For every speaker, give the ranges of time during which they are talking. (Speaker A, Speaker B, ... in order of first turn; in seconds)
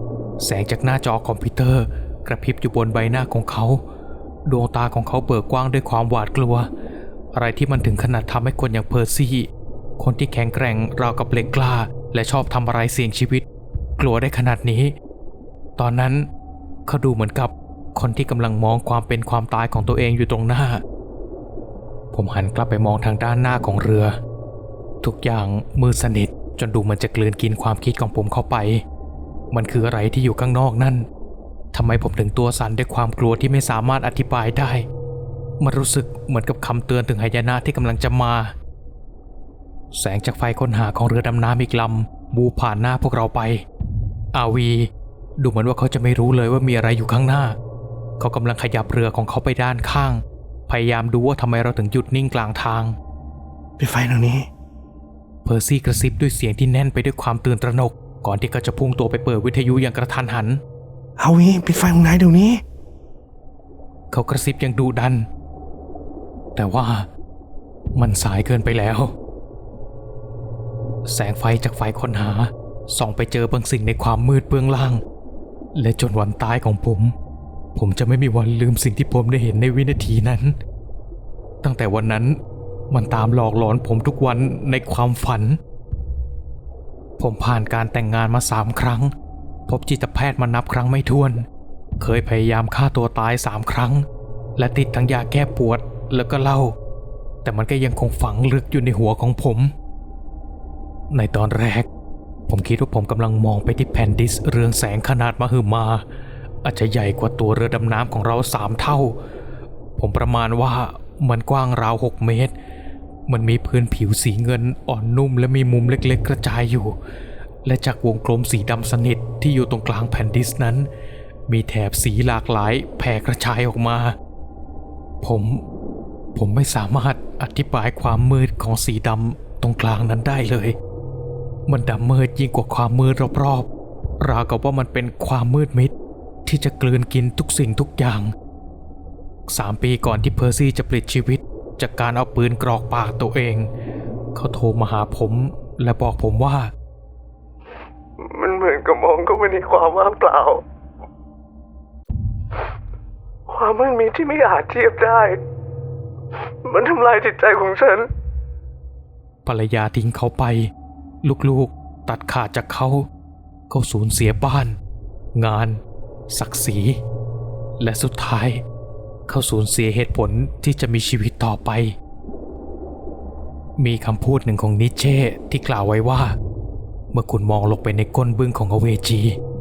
Speaker A: 0.4-3.8, 4.5-6.7, 7.3-13.5, 14.0-14.9, 15.8-16.3, 16.9-20.8, 22.1-24.2, 25.0-28.8, 29.5-31.1, 31.7-34.9, 35.6-38.5, 39.9-43.6, 44.3-47.6, 48.2-53.0, 55.5-60.6, 64.1-65.3, 66.6-67.1, 68.0-69.1, 71.1-75.0, 75.7-77.1, 77.8-80.5, 81.6-82.4, 82.9-85.6, 87.2-89.1, 89.7-91.5, 92.0-96.8, 97.4-99.7, 101.1-101.9, 102.5-106.0, 106.6-109.2, 110.0-112.5, 113.3-117.0, 117.7-120.9, 121.5-124.2, 125.2-125.6, 126.3-130.8, 131.7-133.7, 134.2-135.9, 136.4-138.3, 139.5-143.7, 144.3-146.7, 159.4-160.7, 161.2-163.1, 163.7-164.8, 165.3-167.0, 167.8-168.6, 169.3-171.9, 173.8-176.3, 177.1-179.4
Speaker B: 53.8-54.5, 61.2-62.6, 148.2-150.6, 153.5-155.4, 156.6-158.1